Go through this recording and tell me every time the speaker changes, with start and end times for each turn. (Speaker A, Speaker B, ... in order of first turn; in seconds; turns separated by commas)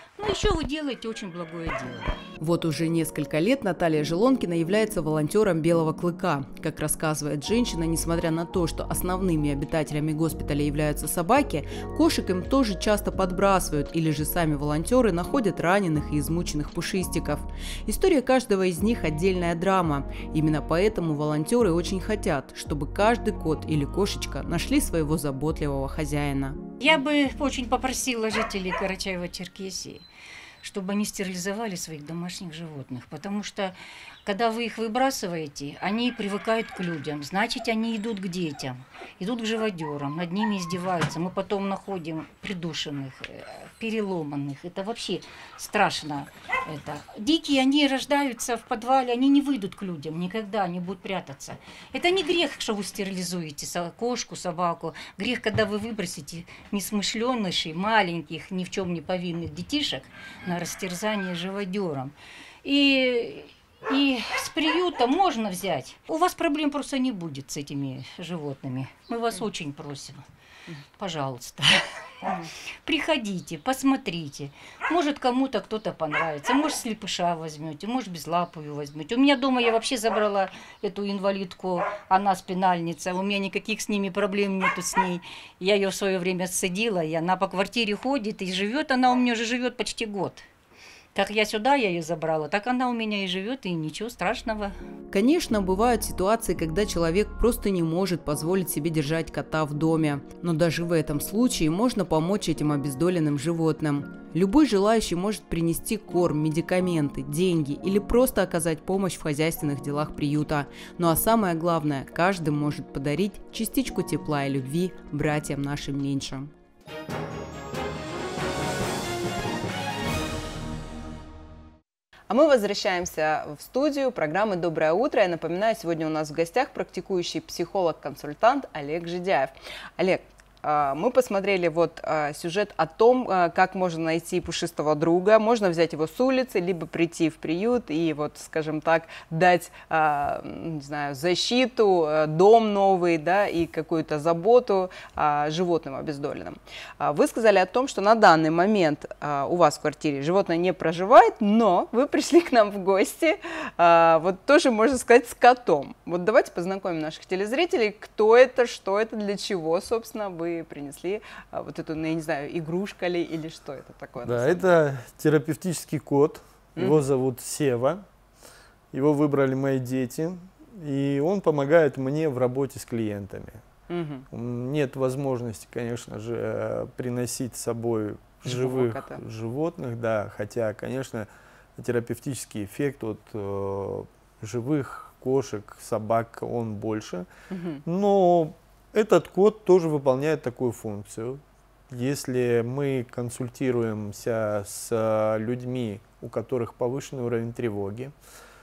Speaker A: 0.2-2.1, Speaker B: 2.4-26.6, Speaker A: 26.8-30.1, Speaker A: 30.6-70.2, Speaker A: 71.0-72.3, Speaker A: 72.8-90.5, Speaker A: 91.2-94.8, Speaker B: 95.1-116.5, Speaker B: 122.3-164.7, Speaker C: 164.2-168.1, Speaker C: 168.9-173.6, Speaker B: 173.9-174.3, Speaker C: 174.3-187.3, Speaker B: 178.4-179.2, Speaker B: 187.5-187.8, Speaker C: 187.8-198.1